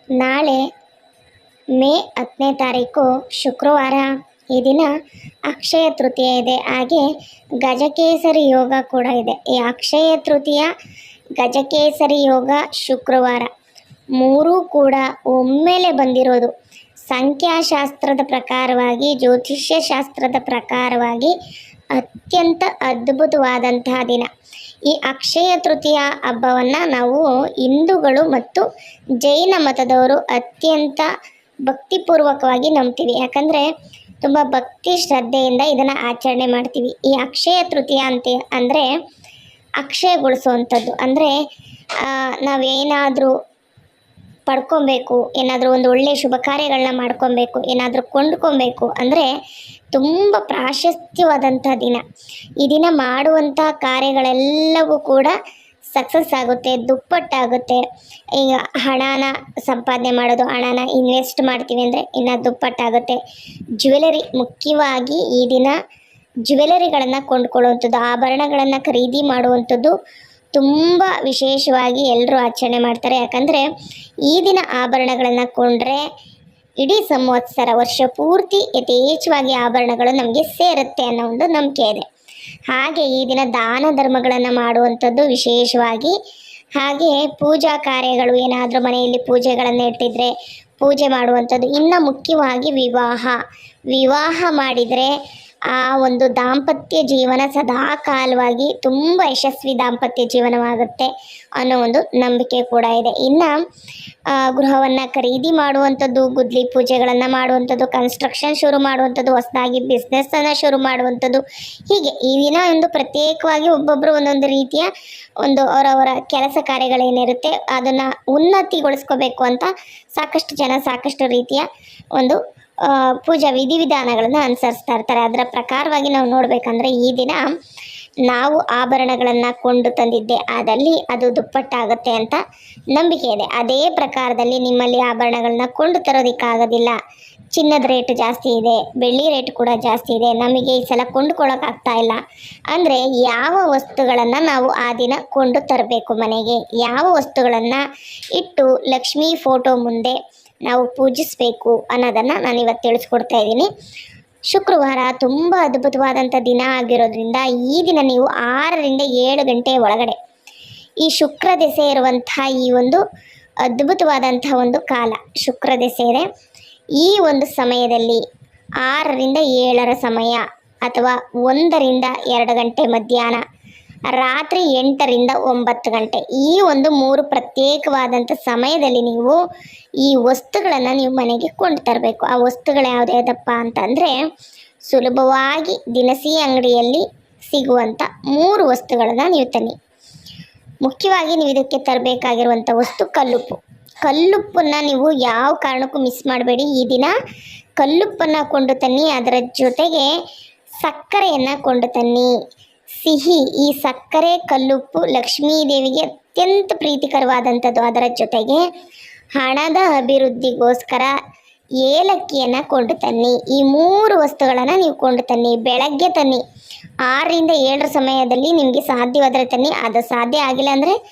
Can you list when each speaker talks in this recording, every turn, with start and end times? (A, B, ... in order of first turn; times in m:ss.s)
0:00.2-0:00.6 A
0:01.8-0:04.9 A
0:05.5-0:07.1 A
0:07.6-0:10.7 A
0:11.4-0:13.5 A
0:14.2-0:16.5 A
0:17.1-0:21.3 A
0:21.9-0:24.3 A
0:24.9-0:28.7 A
0:29.2-0:31.1 A
0:31.7-0:33.7 A
0:34.2-0:38.9 A
0:39.8-0:41.4 A
0:42.0-0:43.3 A
0:44.5-0:49.3 A
0:50.0-0:52.0 A
0:52.6-0:55.4 A
0:56.0-0:57.8 A
0:58.4-1:03.2 A
1:03.8-1:05.8 A
1:06.5-1:09.9 A
1:10.6-1:13.7 A
1:14.3-1:16.0 A
1:16.8-1:22.1 A
1:22.7-1:26.2 A
1:26.8-1:33.4 A
1:33.9-1:35.1 A
1:35.7-1:43.5 A
1:44.3-1:54.9 A
1:55.4-2:01.7 A
2:02.2-2:07.4 A
2:08.3-2:12.4 A
2:12.9-2:17.0 A
2:17.6-2:22.2 A
2:22.7-2:27.8 A
2:28.4-2:33.7 A
2:34.5-2:40.2 A
2:41.0-2:43.0 A
2:43.7-2:46.3 A
2:47.0-2:48.2 A
2:48.8-2:53.4 A
2:54.1-2:59.4 A
3:00.0-3:04.2 A
3:04.9-3:09.8 A
3:10.8-3:17.1 A
3:17.8-3:20.1 A
3:20.8-3:22.3 A
3:23.0-3:28.6 A
3:29.4-3:31.2 A
3:31.8-3:36.4 A
3:37.1-3:41.0 A